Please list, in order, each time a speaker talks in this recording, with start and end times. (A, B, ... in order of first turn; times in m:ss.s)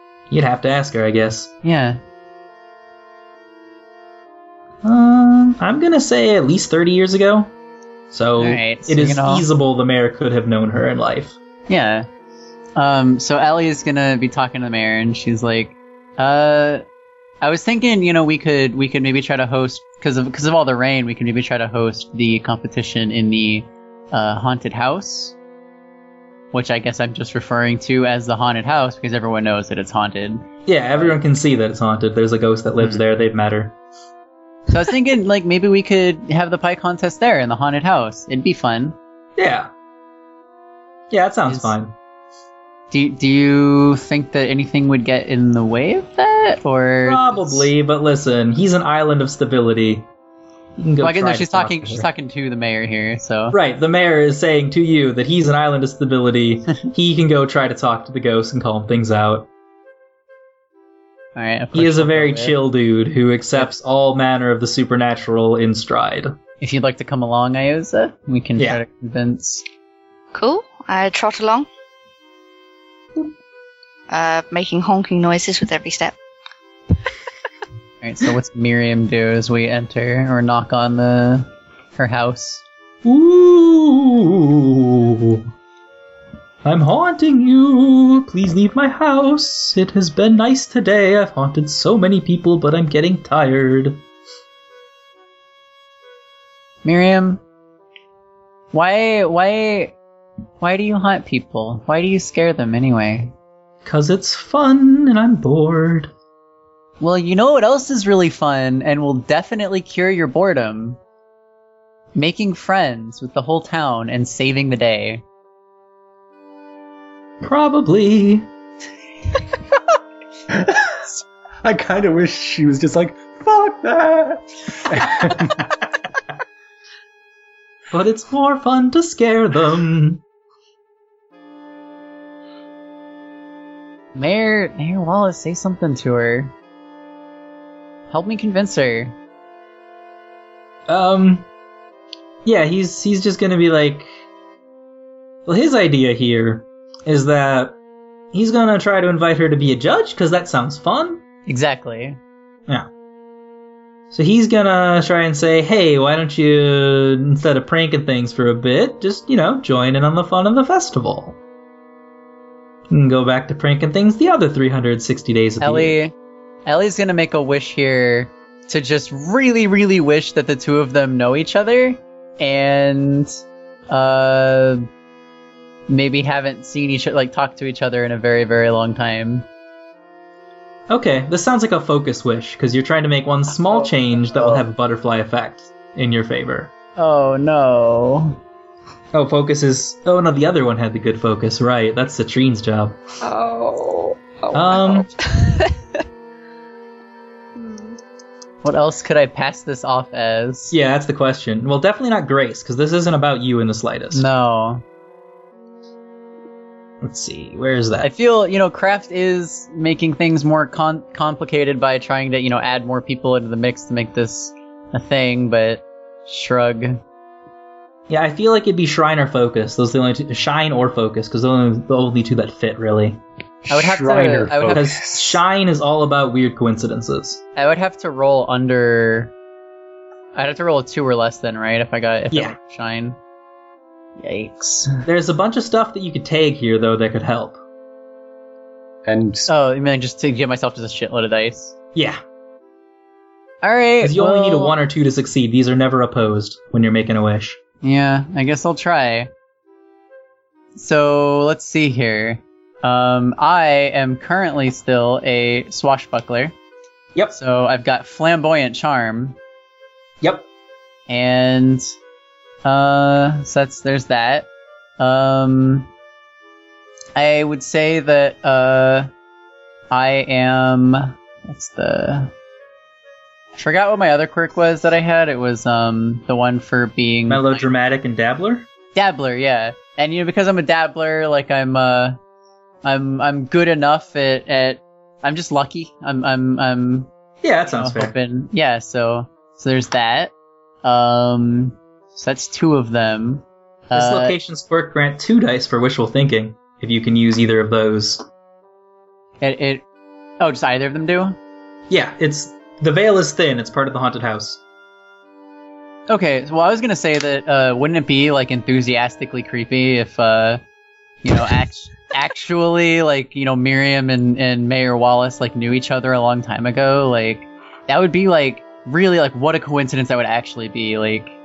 0:00.3-0:01.5 A
0:01.6-0:02.0 B
0:04.8-0:07.5 A
0:08.1-0:11.4 A
0:08.4-0:09.5 B
0:11.7-0:12.1 B
0:12.8-0:16.8 B
0:17.4-0:25.4 B
0:26.5-0:31.2 B
0:30.7-0:33.8 A
0:34.7-0:39.0 B
0:39.4-0:39.7 A
0:41.1-0:41.9 A
0:41.5-0:41.7 B
0:42.9-0:47.7 B
0:47.0-0:50.1 A
0:50.8-0:52.1 A
0:51.0-0:53.6 B
0:53.5-0:59.5 A
1:01.4-1:02.6 B
1:01.7-1:06.4 A
1:06.6-1:09.6 B
1:10.3-1:11.7 C
1:14.1-1:16.2 C
1:18.0-1:22.6 B
1:23.0-1:25.5 A
1:26.6-1:34.0 A
1:36.8-1:37.4 B
1:38.7-1:40.0 B
1:40.6-1:43.3 B
1:43.8-1:46.1 A
1:47.0-1:51.0 B
1:52.2-1:55.2 B
1:57.4-1:58.5 A
2:00.5-2:05.7 D
2:07.9-2:10.2 A
2:14.2-2:16.5 B
2:18.1-2:19.2 B
2:20.9-2:21.5 A
2:22.4-2:24.1 A
2:25.5-2:27.8 A
2:28.3-2:31.2 A
2:31.5-2:32.2 B
2:34.1-2:41.4 A
2:42.9-2:46.0 A
2:45.6-2:46.1 B
2:46.7-2:54.9 B
2:55.9-2:59.5 B
3:00.9-3:06.7 A
3:07.0-3:08.4 B
3:09.1-3:13.0 A
3:13.2-3:15.7 E
3:14.5-3:15.1 A
3:17.6-3:18.0 E
3:18.6-3:20.8 B
3:20.7-3:24.3 A
3:24.1-3:24.8 B
3:27.0-3:28.1 A
3:28.0-3:37.0 B
3:38.1-3:43.2 A
3:43.6-3:45.4 D
3:43.7-3:44.9 B
3:44.7-3:47.4 A
3:47.6-3:49.3 B
3:50.4-3:53.2 B
3:52.3-3:52.6 A
3:54.2-3:55.0 B
3:55.0-3:57.6 A
3:59.0-3:59.5 D
3:59.5-4:01.8 B
4:02.0-4:02.2 A
4:03.6-4:04.8 B
4:04.0-4:07.6 A
4:07.8-4:09.3 B
4:10.8-4:16.5 B
4:17.3-4:19.4 B
4:21.1-4:21.9 B
4:22.6-4:24.5 B
4:25.0-4:25.9 B
4:27.2-4:29.1 B
4:29.9-4:32.3 B
4:33.6-4:37.6 B
4:37.3-4:38.7 A
4:39.0-4:42.2 B
4:42.8-4:47.1 B
4:47.4-4:48.1 A
4:47.7-4:50.3 B
4:50.8-4:54.4 B
4:53.9-4:58.2 A
4:59.4-4:59.8 B
5:00.4-5:01.4 B
5:01.9-5:04.6 A
5:06.1-5:10.6 B
5:11.2-5:21.3 B